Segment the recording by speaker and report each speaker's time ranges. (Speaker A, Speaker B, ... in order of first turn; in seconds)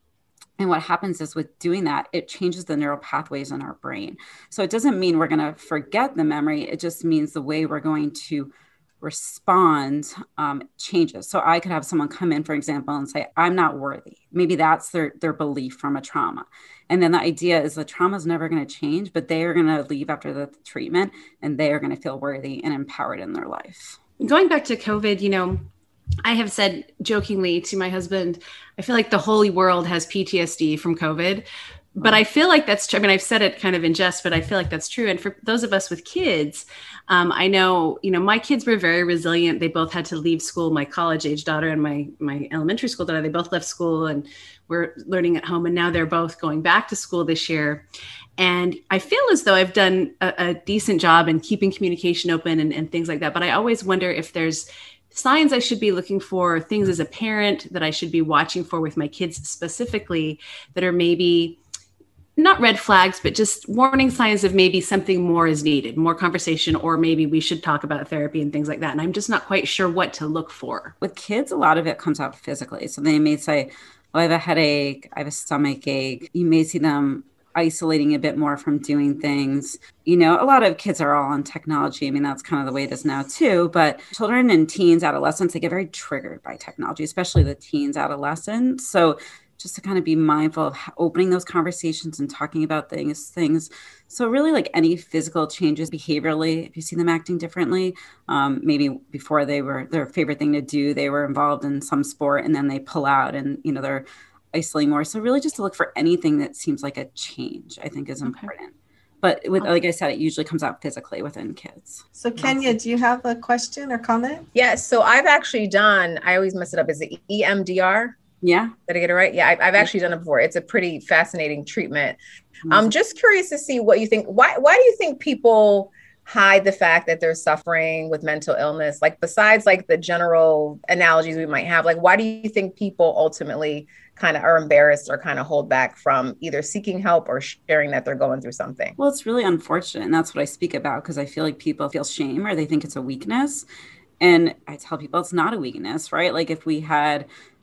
Speaker A: 0.6-24.0, 71.0-112.0, 118.4-118.8, 139.0-143.7, 144.2-147.3
Speaker B: 24.2-25.6, 26.3-47.9, 48.4-61.6, 62.4-70.9, 108.2-108.5
Speaker C: 112.2-114.5
Speaker D: 114.5-118.2, 118.9-138.9